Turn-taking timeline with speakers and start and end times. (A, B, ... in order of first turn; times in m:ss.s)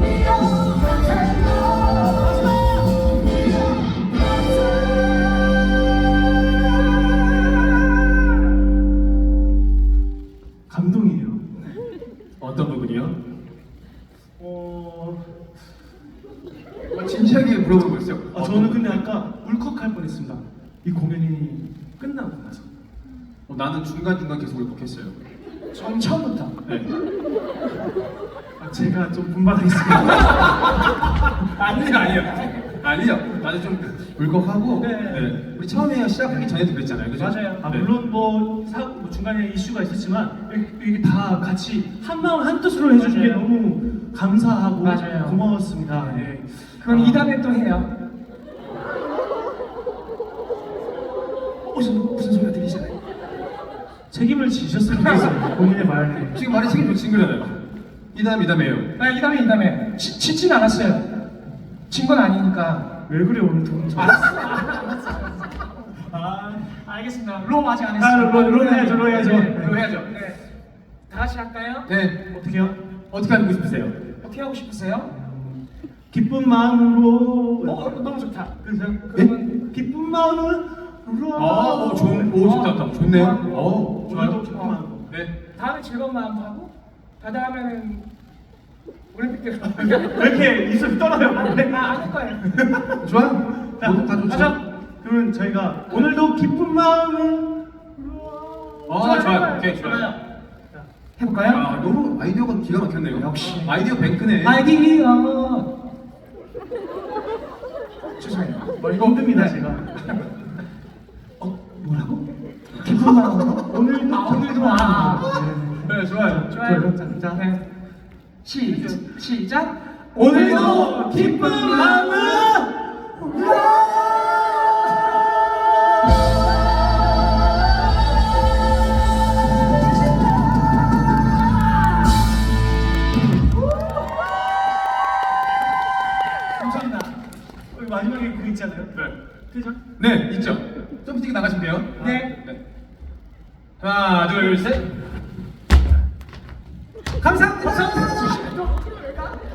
0:00.2-0:02.1 A
0:10.7-0:11.7 B
0:12.4-0:13.2 C
0:14.4-0:15.3 B
0:16.9-0:19.0 C
0:18.3-0:22.7 B
0:23.5-0:25.1 C
0:25.7-0:26.6 A
0:28.6-0:30.7 B
0:31.4-0:37.9 C
0:34.8-0:35.3 A
0:37.2-0:37.6 A
0:37.6-0:46.3 B
0:43.0-0:43.4 A
0:44.8-0:45.4 A
0:46.1-0:47.3 C
0:46.8-0:47.9 A
0:51.7-0:52.9 A
0:54.1-0:56.4 B
0:56.3-0:57.6 C
0:58.1-0:58.9 C
0:59.0-1:01.1 A
1:01.9-1:02.9 A
1:03.1-1:04.6 B
1:03.9-1:05.6 A
1:06.0-1:06.7 B
1:06.6-1:10.4 A
1:08.0-1:09.8 B
1:09.5-1:10.1 C
1:11.1-1:11.9 A
1:11.9-1:12.2 C
1:12.3-1:12.8 B
1:13.1-1:14.0 C
1:14.2-1:15.1 A
1:15.1-1:17.9 B
1:17.6-1:18.5 A
1:18.6-1:22.4 B
1:19.1-1:19.5 A
1:21.4-1:24.4 C
1:22.3-1:23.4 A
1:23.2-1:25.1 B
1:25.1-1:25.3 C
1:25.5-1:28.1 A
1:29.1-1:30.4 A
1:29.8-1:33.0 B
1:31.3-1:32.6 A
1:33.0-1:34.6 C
1:33.8-1:37.6 B
1:38.4-1:38.8 B
1:38.9-1:40.1 C
1:38.9-1:40.2 A
1:41.2-1:41.7 A
1:41.5-1:44.6 C
1:43.1-1:43.7 A
1:44.4-1:45.7 A
1:48.2-1:50.2 A
1:48.8-1:49.9 B
1:48.9-1:49.2 C
1:51.4-1:52.2 A
1:52.7-1:55.4 A
1:53.6-1:57.4 B
1:55.8-1:56.5 C
1:56.5-1:57.6 A
1:58.4-2:02.4 A
1:58.7-1:59.0 C
2:00.1-2:04.5 B
2:00.2-2:02.2 C
2:03.2-2:03.9 A
2:16.6-2:17.2 A
2:17.7-2:19.0 B
2:19.5-2:19.8 B
2:20.0-2:22.6 C
2:22.0-2:22.4 A
2:23.8-2:24.9 C
2:27.2-2:29.3 A